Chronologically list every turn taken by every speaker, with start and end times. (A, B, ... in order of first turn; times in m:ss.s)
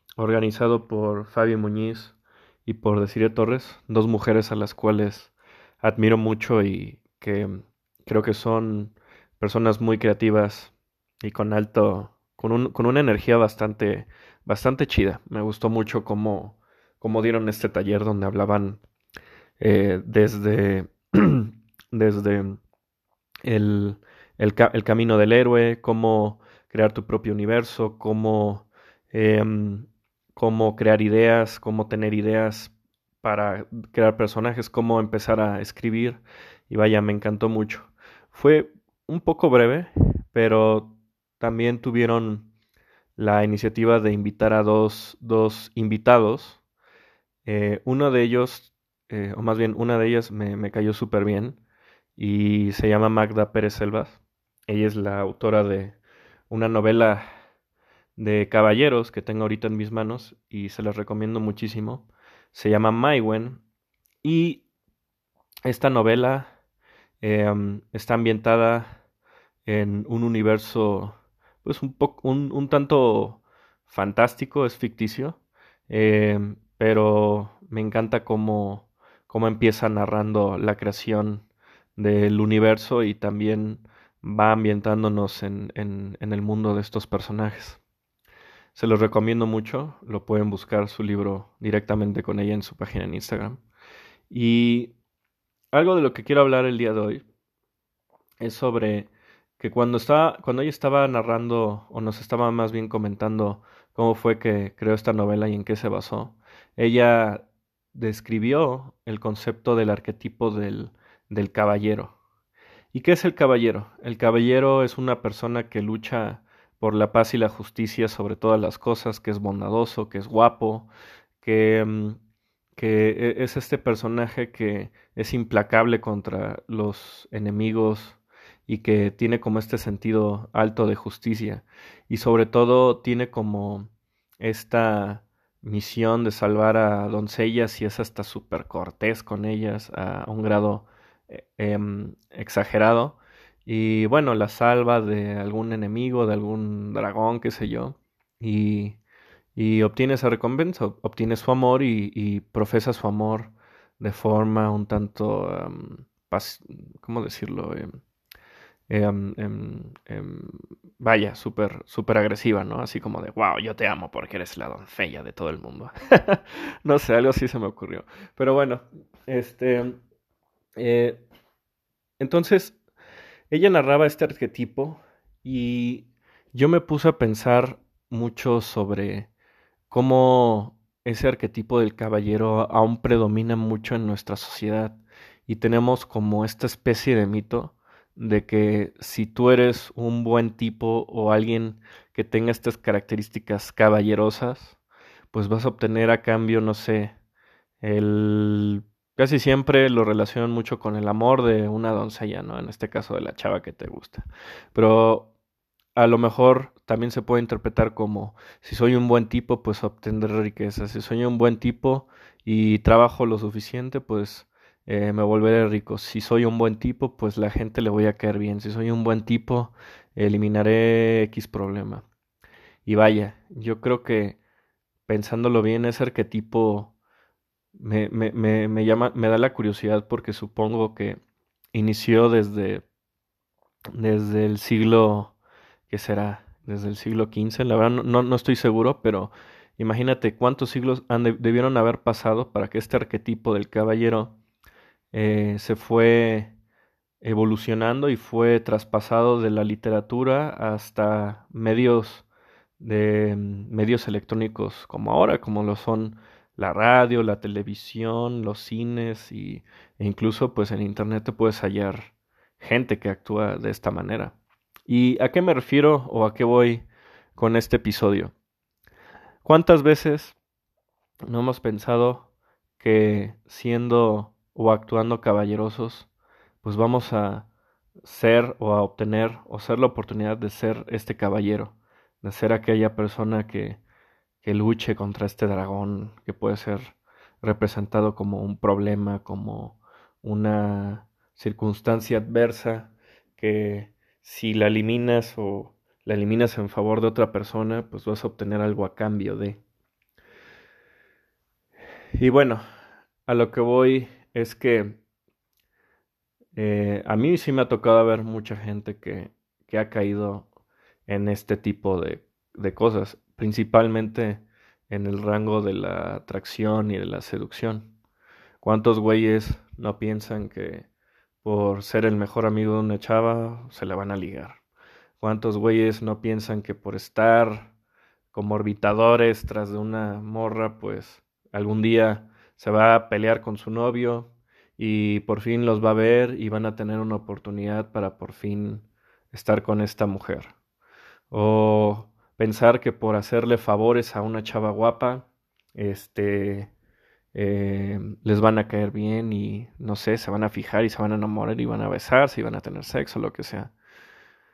0:00.2-0:18.8 A
0:19.6-0:22.6 A
0:23.4-0:42.5 A
0:43.2-0:46.6 A
0:47.4-0:51.6 A
0:52.2-0:56.0 A
0:56.5-0:57.2 A
0:58.2-1:03.6 A
1:04.2-1:04.6 A
1:05.7-1:06.5 A
1:07.2-1:09.0 A
1:09.6-1:15.4 A
1:15.9-1:21.4 A
1:22.0-1:27.8 A
1:28.8-1:33.6 A
1:34.3-1:34.9 A
1:35.7-1:37.2 A
1:38.4-1:52.1 A
1:52.9-2:00.9 A
2:01.4-2:02.2 A
2:02.8-2:29.0 A
2:29.5-2:37.9 A
2:38.9-2:50.0 A
2:50.8-2:51.2 A
2:52.2-2:52.8 A
2:53.5-2:59.3 A
2:59.9-3:14.8 A
3:15.3-3:17.1 A
3:17.8-3:25.3 A
3:25.9-3:42.0 A
3:42.8-3:44.4 A
3:45.1-3:46.9 A
3:47.8-3:51.2 A
3:51.7-3:52.8 A
3:53.9-3:55.3 A
3:55.9-4:04.4 A
4:05.1-4:06.5 A
4:07.2-4:12.3 A
4:12.8-4:24.4 A
4:24.9-4:28.3 A
4:29.4-4:30.4 A
4:31.3-4:32.3 A
4:32.8-4:36.1 A
4:36.6-4:37.5 A
4:38.0-4:43.8 A
4:44.4-4:59.6 A
5:02.2-5:02.6 A
5:03.2-5:05.0 A
5:06.6-5:10.5 A
5:11.1-5:17.9 A
5:18.6-5:20.9 A
5:21.4-5:24.6 A
5:25.2-5:27.7 A
5:28.3-5:40.5 A
5:41.3-5:46.7 A
5:47.3-5:53.7 A